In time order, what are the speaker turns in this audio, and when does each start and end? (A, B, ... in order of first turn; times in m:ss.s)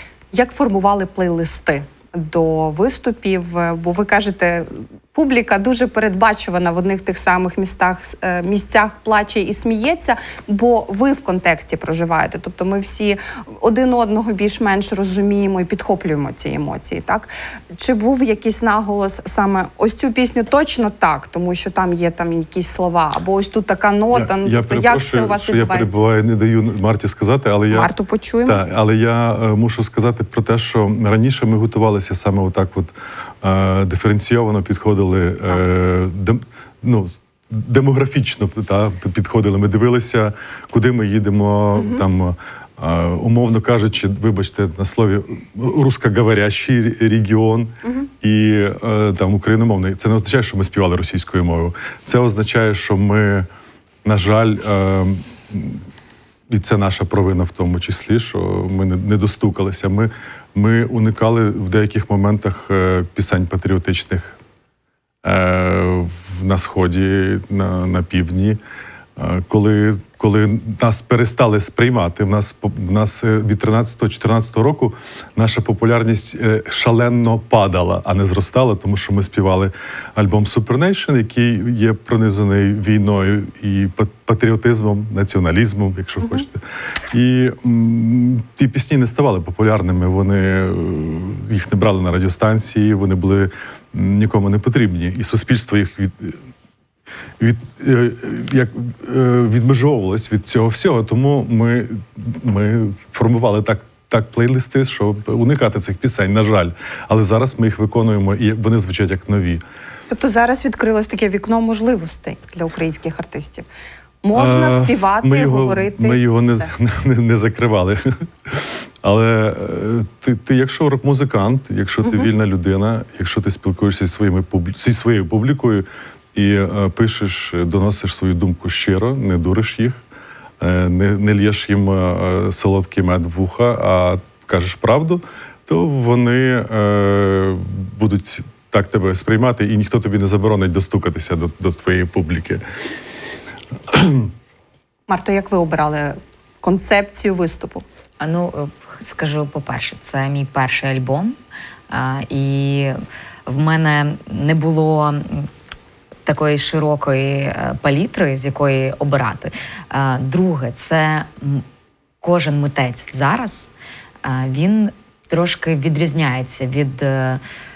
0:00.3-0:25.9 A
0:24.1-0:27.9 B
0:27.7-0:28.6 A
0:28.4-0:53.5 B
0:41.8-0:42.0 A
0:54.0-0:55.8 B
0:56.5-1:04.4 B
1:05.2-1:08.6 B
1:09.2-1:26.6 B
1:27.1-1:36.4 B
1:37.4-1:49.6 B
1:50.1-1:53.7 A
1:54.2-1:56.7 A
1:54.3-2:10.0 B
2:10.6-2:22.6 B
2:23.9-2:24.3 B
2:25.1-2:27.8 A
2:28.2-2:31.3 C
2:31.9-2:35.5 C
2:36.2-2:41.6 C
2:42.2-2:43.7 C
2:44.2-2:47.4 C